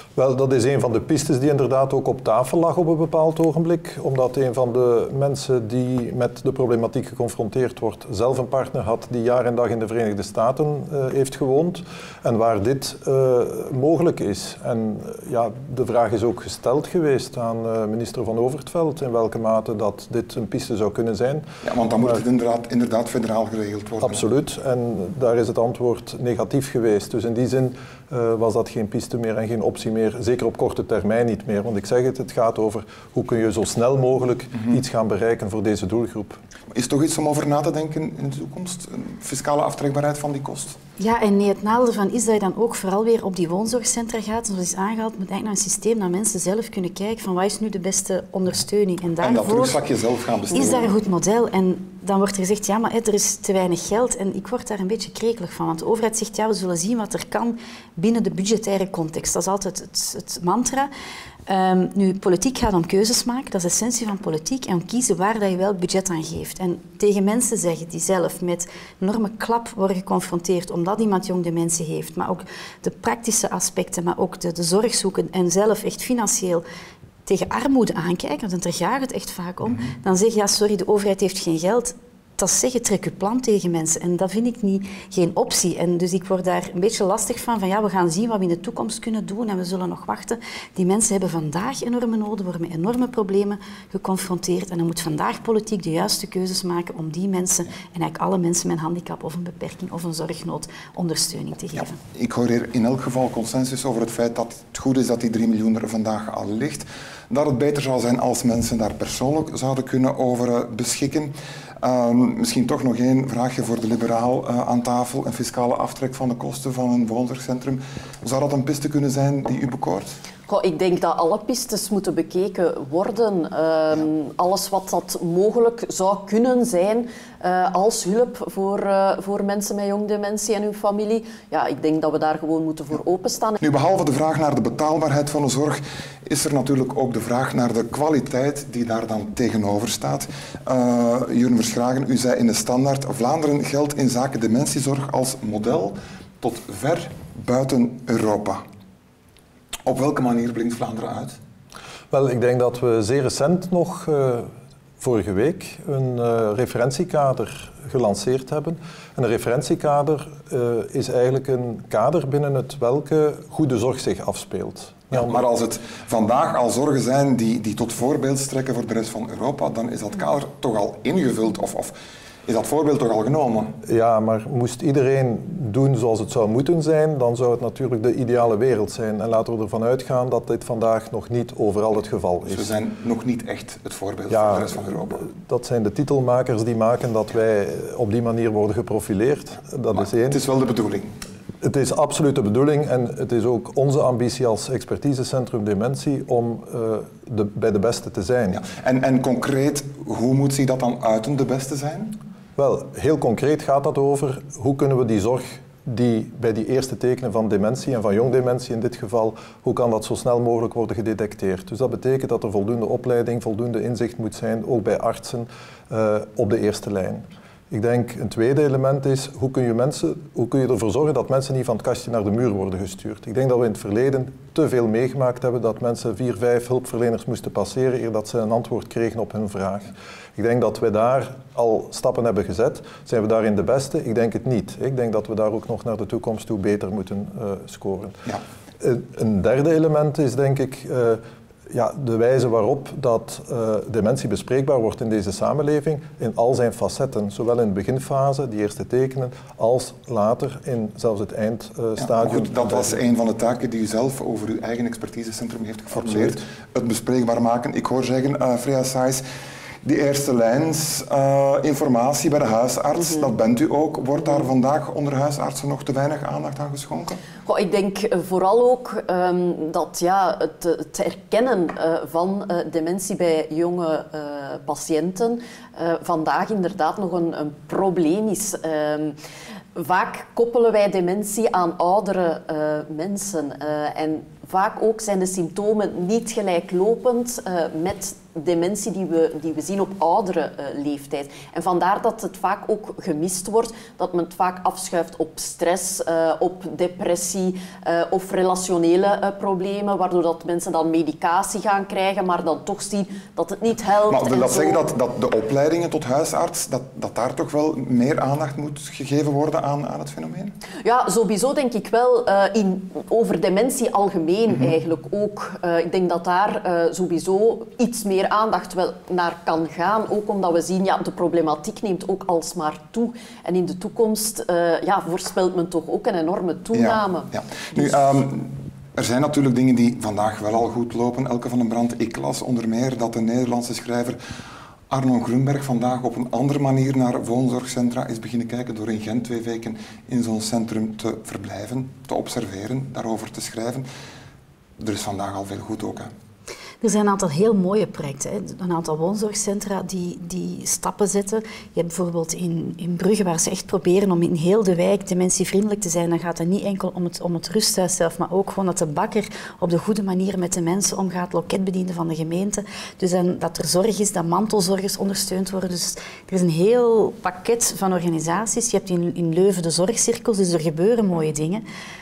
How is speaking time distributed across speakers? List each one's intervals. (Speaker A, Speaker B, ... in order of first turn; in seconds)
Speaker A: 0.2-21.5, 24.0-36.4, 152.1-165.4, 173.8-182.7, 184.3-190.4, 191.6-198.6, 202.6-238.2, 238.8-253.0, 256.0-256.3
Speaker B: 21.6-24.2, 36.7-40.8, 49.2-50.9, 101.8-120.2, 133.6-148.6, 149.8-151.4, 165.1-171.9, 172.5-173.8, 182.5-185.2, 189.9-191.1, 198.5-202.2, 252.0-259.2, 259.8-267.2, 304.1-310.6, 326.7-334.2, 334.9-343.9, 344.8-346.1
Speaker C: 41.0-49.8, 50.5-60.9, 61.5-76.6, 77.3-102.0, 346.8-371.6
Speaker D: 120.5-133.6, 267.4-279.2, 279.8-304.9, 310.8-327.9